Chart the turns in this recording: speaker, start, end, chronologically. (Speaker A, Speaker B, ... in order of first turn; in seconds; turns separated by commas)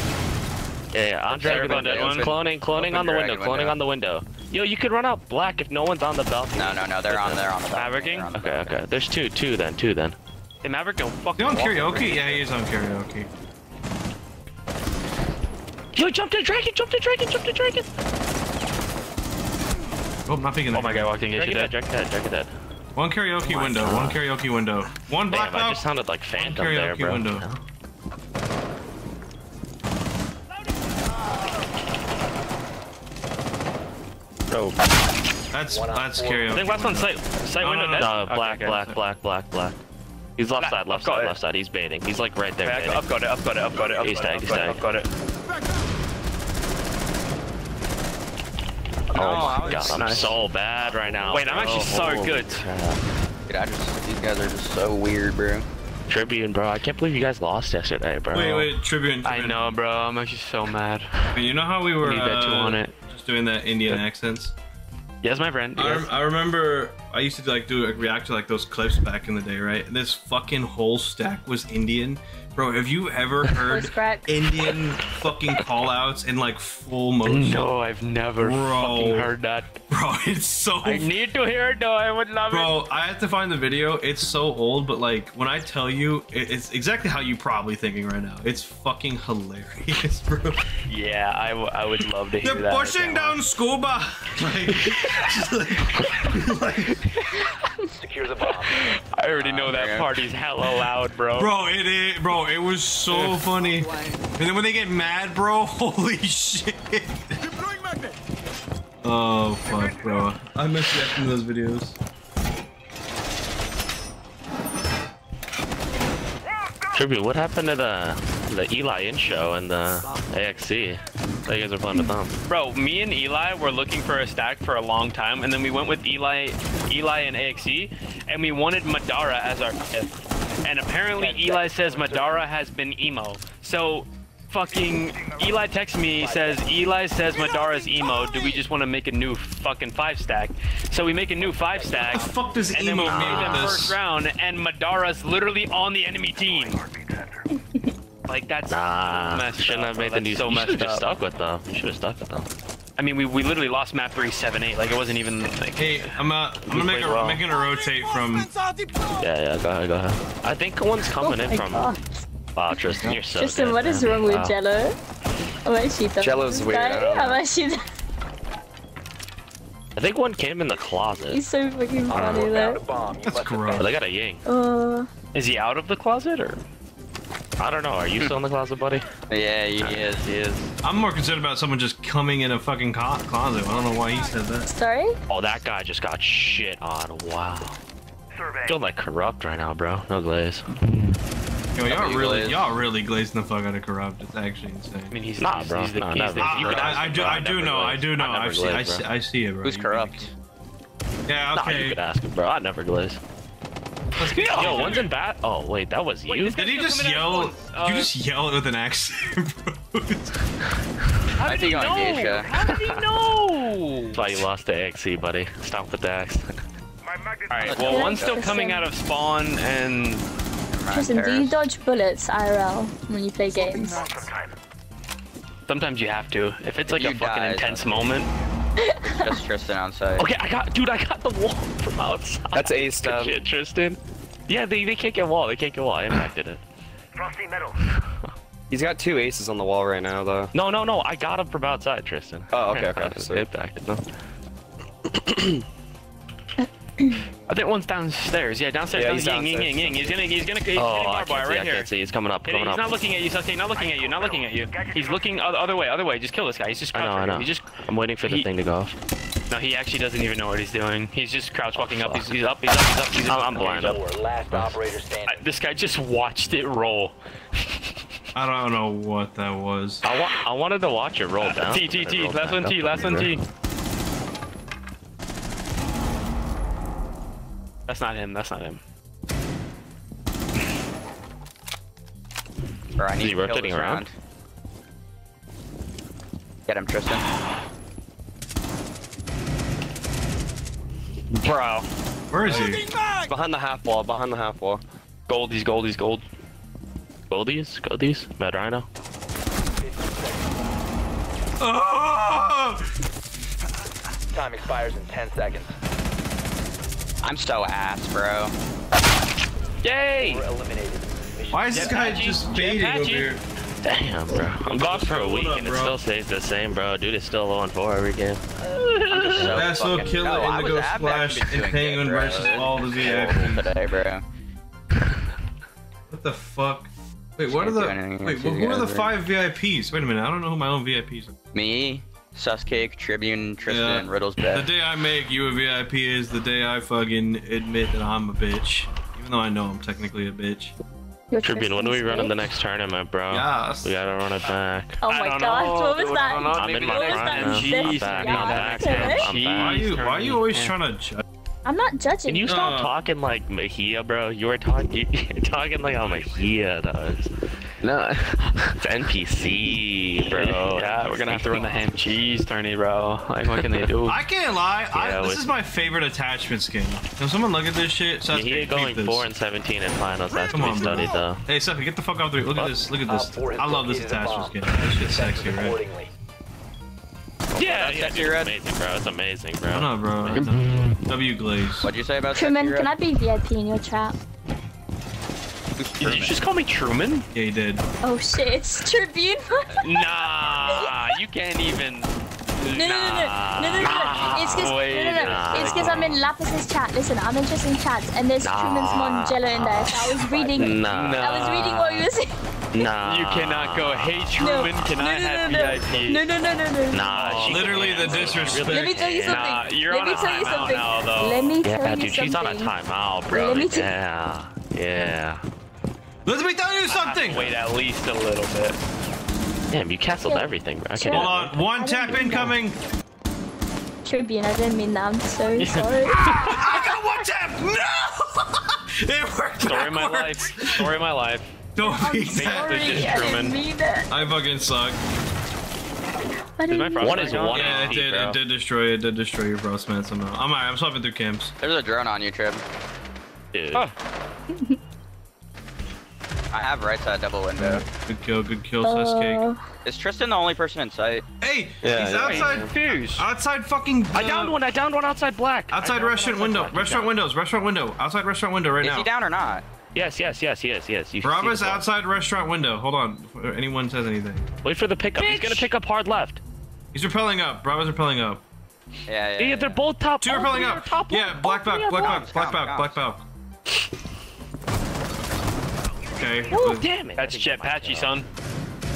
Speaker A: 0.9-7.5, Speaker B: 1.3-2.3, Speaker C: 1.3-3.8, Speaker C: 6.5-8.8, Speaker B: 7.7-8.3, Speaker A: 8.3-10.2, Speaker B: 10.6-12.4, Speaker D: 11.4-13.3, Speaker A: 15.9-17.9, Speaker D: 20.3-21.1, Speaker B: 20.7-21.7, Speaker A: 21.3-22.5, Speaker D: 22.9-27.6, Speaker A: 23.4-24.2, Speaker A: 25.3-27.5, Speaker D: 35.5-39.0, Speaker E: 35.7-36.8, Speaker B: 36.5-38.8, Speaker A: 37.9-39.8, Speaker A: 40.4-43.0, Speaker B: 40.6-41.3, Speaker B: 42.6-45.1, Speaker A: 43.8-44.8, Speaker C: 49.1-50.4, Speaker A: 49.1-53.0, Speaker B: 49.1-50.4, Speaker B: 51.3-52.6, Speaker C: 53.5-55.7, Speaker A: 56.1-58.7, Speaker D: 58.3-59.6, Speaker B: 59.2-61.4, Speaker D: 61.3-64.5, Speaker B: 62.0-62.9, Speaker B: 65.2-66.1, Speaker D: 65.8-77.7, Speaker F: 73.6-74.4, Speaker B: 77.2-79.7, Speaker D: 78.4-79.3, Speaker D: 79.9-81.1, Speaker B: 80.8-82.8, Speaker D: 82.5-90.7, Speaker B: 90.9-93.4, Speaker D: 92.4-97.0, Speaker B: 94.8-95.2, Speaker B: 97.0-97.5, Speaker E: 97.9-98.9, Speaker B: 98.4-101.5, Speaker C: 99.4-100.2, Speaker D: 101.3-107.4, Speaker B: 103.1-103.4, Speaker D: 109.0-112.0, Speaker A: 116.9-122.4, Speaker B: 122.4-146.9, Speaker E: 131.1-132.5, Speaker E: 136.2-136.7, Speaker E: 141.3-142.8, Speaker D: 142.0-144.0, Speaker A: 143.0-143.8, Speaker B: 148.2-151.1, Speaker A: 148.7-152.5, Speaker B: 153.0-157.4, Speaker D: 155.8-158.5, Speaker A: 159.2-161.9, Speaker F: 161.2-162.0, Speaker A: 162.5-164.5, Speaker F: 162.8-164.9, Speaker F: 165.6-167.8, Speaker G: 166.2-167.4, Speaker A: 169.9-171.4, Speaker F: 171.3-172.8, Speaker A: 172.1-172.5, Speaker E: 172.2-174.0, Speaker D: 173.2-173.9, Speaker A: 173.8-174.4, Speaker F: 174.4-175.1, Speaker B: 175.3-176.6, Speaker A: 177.6-179.0, Speaker C: 179.3-180.7, Speaker D: 180.8-184.7, Speaker F: 184.7-185.2, Speaker A: 185.3-187.8, Speaker A: 188.6-190.8, Speaker D: 191.7-195.2, Speaker C: 191.8-192.7, Speaker B: 195.1-197.5, Speaker A: 195.4-199.0, Speaker D: 196.4-200.3, Speaker C: 199.6-200.3, Speaker D: 201.3-202.0, Speaker A: 201.5-203.2, Speaker D: 204.2-205.1, Speaker B: 204.3-205.1, Speaker A: 204.4-206.6, Speaker B: 206.3-208.1, Speaker D: 206.5-210.3, Speaker B: 211.4-214.4, Speaker C: 211.4-212.5, Speaker A: 214.1-216.6, Speaker B: 217.5-220.2, Speaker C: 217.6-218.5, Speaker F: 217.7-218.8, Speaker C: 220.7-221.6, Speaker F: 220.9-224.1, Speaker C: 223.5-224.3, Speaker B: 225.7-228.3, Speaker C: 226.9-228.2, Speaker F: 228.8-229.4, Speaker C: 229.0-230.3, Speaker A: 230.2-236.6, Speaker G: 232.5-233.4, Speaker G: 238.7-240.5, Speaker A: 240.5-244.0, Speaker G: 242.5-243.5, Speaker G: 245.1-245.5, Speaker B: 247.5-251.9, Speaker G: 248.9-250.2, Speaker A: 250.7-252.8, Speaker B: 252.4-258.5, Speaker A: 256.9-258.9, Speaker B: 259.5-264.0, Speaker A: 261.7-262.3, Speaker A: 263.2-264.7, Speaker E: 263.5-265.5, Speaker B: 265.3-267.8, Speaker D: 268.3-270.0, Speaker A: 270.0-273.4, Speaker B: 271.4-273.4, Speaker B: 277.9-278.8, Speaker C: 283.0-284.1, Speaker A: 283.2-284.0, Speaker C: 286.7-287.2, Speaker B: 291.4-291.8, Speaker D: 292.3-292.9, Speaker G: 292.5-294.8, Speaker B: 295.3-296.2, Speaker A: 297.3-298.9, Speaker E: 299.8-300.5, Speaker D: 301.6-302.9, Speaker E: 304.3-305.7, Speaker C: 307.2-308.5, Speaker B: 309.8-310.4, Speaker E: 310.1-312.1, Speaker D: 311.5-313.4, Speaker B: 311.7-313.3, Speaker A: 313.8-318.4, Speaker D: 314.6-316.0, Speaker B: 318.7-319.6, Speaker C: 319.1-324.2, Speaker A: 319.3-319.6, Speaker D: 319.3-323.7, Speaker D: 326.1-331.3, Speaker C: 327.5-329.1, Speaker C: 331.5-334.7, Speaker D: 333.6-340.7, Speaker F: 341.3-342.4, Speaker A: 341.4-345.0, Speaker D: 343.3-343.9, Speaker F: 345.0-349.3, Speaker B: 345.0-350.7, Speaker A: 346.5-349.9, Speaker D: 349.6-351.2, Speaker F: 351.6-352.7, Speaker A: 352.3-357.3, Speaker D: 352.5-352.9, Speaker B: 357.8-358.8, Speaker A: 358.8-361.9, Speaker B: 360.3-364.2, Speaker A: 363.5-363.9, Speaker D: 364.1-369.3, Speaker A: 364.9-365.5, Speaker A: 368.3-371.4, Speaker D: 370.5-375.8, Speaker E: 373.0-376.1, Speaker C: 377.5-378.5, Speaker A: 377.6-381.0, Speaker D: 379.7-381.9, Speaker C: 381.8-382.9, Speaker F: 382.3-384.2, Speaker C: 385.8-386.4, Speaker B: 386.0-387.3, Speaker D: 387.3-387.8, Speaker F: 388.0-391.1, Speaker B: 389.8-396.2, Speaker F: 392.6-402.4, Speaker A: 393.3-394.5, Speaker A: 395.1-395.9, Speaker A: 398.4-401.4, Speaker B: 400.4-402.1, Speaker A: 402.7-404.3, Speaker B: 402.8-406.2, Speaker F: 404.4-412.7, Speaker A: 406.9-409.6, Speaker B: 407.1-408.6, Speaker D: 407.5-408.9, Speaker B: 409.2-411.6, Speaker A: 410.1-410.8, Speaker A: 411.6-415.4, Speaker F: 413.3-413.9, Speaker D: 416.2-417.5, Speaker B: 416.9-418.8, Speaker A: 419.7-422.4, Speaker F: 420.2-422.6, Speaker D: 421.1-422.8, Speaker F: 424.0-426.9, Speaker B: 426.2-426.5, Speaker D: 426.2-430.9, Speaker B: 429.6-431.6, Speaker D: 431.8-433.4, Speaker F: 431.8-434.1, Speaker B: 432.3-433.6, Speaker D: 434.1-435.0, Speaker F: 436.6-437.6, Speaker B: 436.7-438.3, Speaker A: 437.0-438.4, Speaker D: 437.5-441.5, Speaker C: 441.6-442.6, Speaker A: 443.5-443.9, Speaker C: 446.5-447.9, Speaker D: 447.6-449.4, Speaker F: 448.8-449.6, Speaker C: 449.8-451.2, Speaker D: 451.4-454.5, Speaker G: 451.8-452.4, Speaker A: 452.2-452.7, Speaker B: 452.2-453.2, Speaker A: 454.1-457.1, Speaker D: 455.7-459.1, Speaker C: 458.8-459.6, Speaker A: 459.9-461.9, Speaker D: 461.2-464.5, Speaker A: 464.6-466.4, Speaker B: 465.2-465.7, Speaker D: 466.9-468.4, Speaker C: 469.1-469.8, Speaker A: 469.4-472.3, Speaker D: 470.2-473.2, Speaker C: 472.0-473.0, Speaker D: 476.1-476.9, Speaker A: 476.5-478.2, Speaker B: 477.1-478.3